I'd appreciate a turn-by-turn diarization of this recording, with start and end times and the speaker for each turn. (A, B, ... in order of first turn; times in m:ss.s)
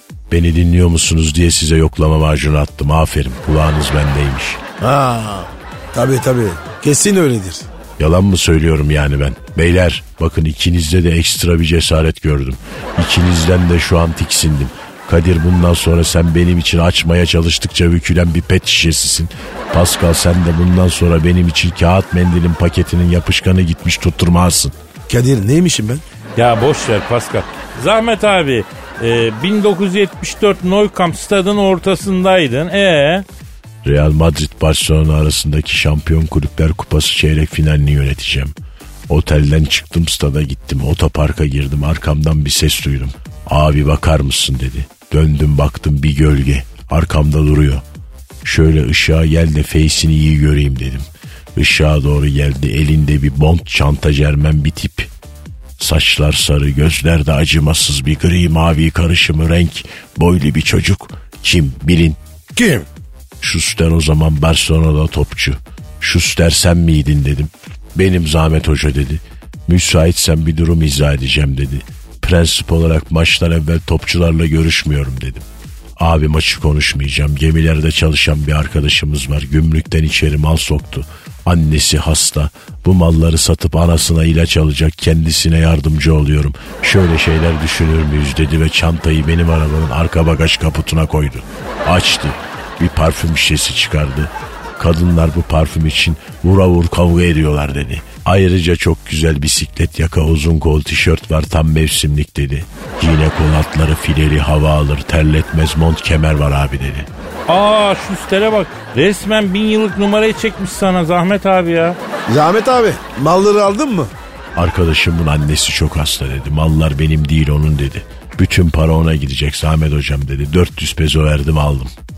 0:00.3-0:04.6 A
0:04.8-0:07.7 B
0:08.0-0:24.7 A
0:25.1-0:26.0 B
0:26.4-0:33.2 C
0:33.8-0:38.5 A
0:39.1-0:47.8 A
0:48.4-0:55.1 A
0:55.8-1:02.2 A
1:02.5-1:02.8 B
1:03.4-1:15.4 A
1:16.0-1:47.1 A
1:47.5-1:52.0 C
1:52.3-1:54.1 B
1:54.6-2:01.9 A